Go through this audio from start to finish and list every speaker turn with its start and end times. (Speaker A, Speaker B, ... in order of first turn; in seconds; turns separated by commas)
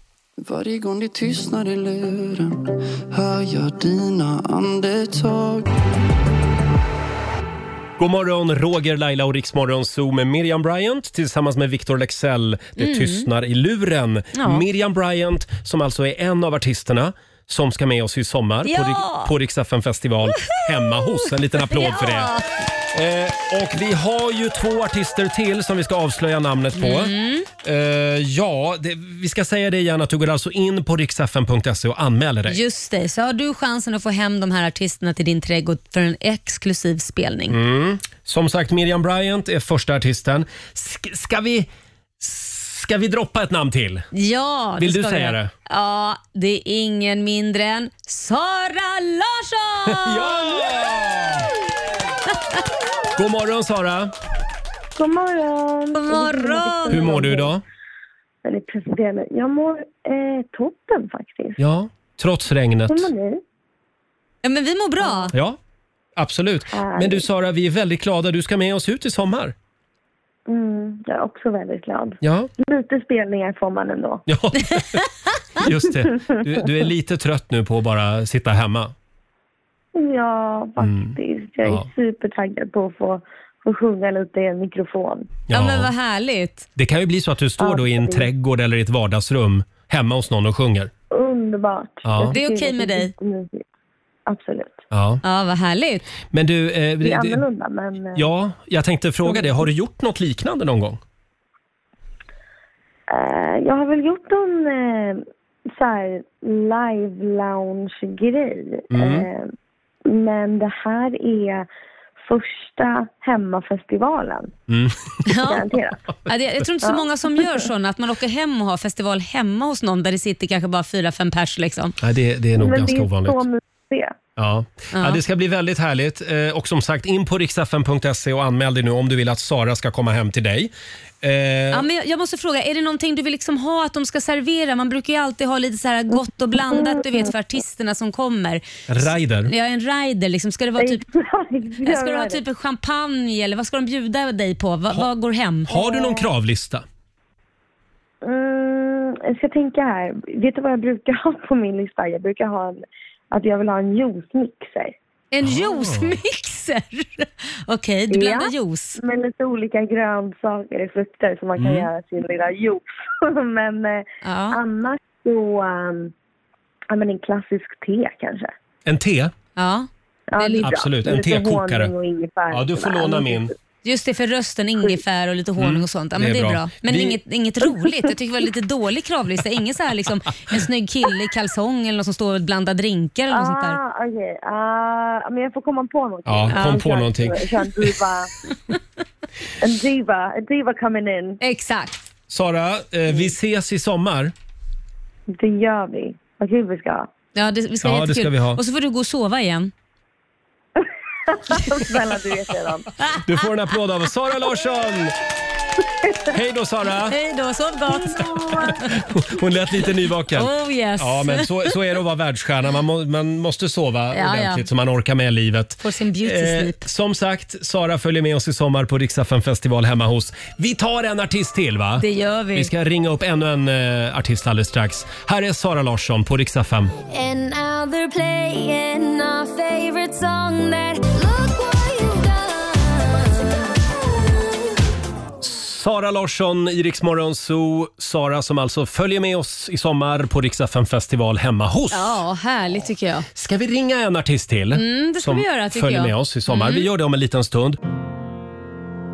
Speaker A: 0.4-5.7, Speaker B: 8.0-22.3, Speaker C: 12.8-13.3, Speaker C: 14.3-14.6, Speaker C: 18.6-19.3, Speaker C: 20.4-21.1, Speaker C: 21.7-22.4, Speaker B: 22.9-27.1, Speaker C: 26.8-27.5, Speaker B: 27.6-32.6, Speaker C: 32.5-37.5, Speaker B: 37.5-41.7, Speaker B: 42.2-44.0, Speaker C: 44.1-50.4, Speaker B: 44.8-45.5, Speaker B: 49.9-51.5, Speaker B: 53.1-54.1, Speaker D: 55.0-57.6, Speaker C: 55.9-57.2, Speaker B: 56.9-57.6, Speaker D: 58.4-61.6, Speaker B: 61.6-63.1, Speaker D: 62.9-63.4, Speaker C: 64.4-65.3, Speaker D: 65.0-65.3, Speaker B: 66.2-69.5, Speaker D: 66.7-67.2, Speaker D: 70.5-74.2, Speaker B: 72.2-72.5, Speaker B: 74.3-75.0, Speaker B: 75.6-78.9, Speaker D: 75.7-76.7, Speaker D: 79.9-85.3, Speaker B: 80.8-81.9, Speaker B: 85.5-85.9, Speaker C: 85.5-86.7, Speaker B: 86.8-90.9, Speaker D: 87.6-88.3, Speaker D: 91.1-93.6, Speaker B: 92.0-92.4, Speaker C: 92.3-93.1, Speaker D: 94.3-94.8, Speaker B: 94.9-95.2, Speaker C: 95.2-96.0, Speaker B: 96.3-97.4, Speaker D: 97.0-98.3, Speaker B: 98.1-101.0, Speaker D: 99.2-99.7, Speaker D: 103.1-105.2, Speaker D: 105.8-109.5, Speaker B: 108.9-109.3, Speaker D: 110.1-111.7, Speaker D: 112.2-114.5, Speaker B: 114.7-115.2, Speaker C: 115.2-115.6, Speaker D: 115.4-116.0, Speaker C: 116.2-121.9, Speaker B: 122.0-123.4, Speaker D: 122.5-124.1, Speaker B: 124.4-130.7, Speaker C: 124.9-125.2, Speaker B: 131.2-131.8, Speaker C: 131.7-138.6, Speaker D: 136.7-137.3, Speaker B: 138.9-139.5, Speaker C: 139.4-141.0, Speaker D: 140.8-142.4, Speaker C: 141.8-145.7, Speaker B: 145.7-146.8, Speaker D: 145.7-146.3, Speaker D: 148.2-154.9, Speaker C: 155.3-159.0, Speaker B: 155.4-156.2, Speaker D: 158.1-166.1, Speaker B: 161.6-161.9, Speaker C: 164.2-164.6, Speaker D: 166.9-168.5, Speaker B: 168.8-169.3, Speaker C: 169.6-170.7, Speaker D: 170.3-173.5, Speaker B: 170.6-171.9, Speaker B: 172.5-173.5, Speaker C: 173.8-183.8, Speaker B: 175.6-177.2, Speaker D: 183.3-188.3, Speaker B: 186.2-187.9, Speaker C: 186.5-186.8, Speaker D: 189.6-191.4, Speaker C: 191.4-192.0, Speaker B: 192.3-194.3, Speaker D: 195.3-197.1, Speaker C: 197.3-199.7, Speaker B: 197.8-198.6, Speaker D: 200.8-202.9, Speaker B: 203.2-205.2, Speaker B: 206.3-207.2, Speaker C: 207.1-208.9, Speaker D: 207.9-208.8, Speaker B: 208.7-226.9, Speaker C: 210.3-211.5, Speaker C: 214.1-214.6, Speaker C: 215.8-216.9, Speaker C: 222.0-222.7, Speaker E: 227.1-234.7, Speaker B: 235.4-242.2, Speaker C: 241.9-243.3, Speaker B: 243.3-247.8, Speaker C: 244.7-246.9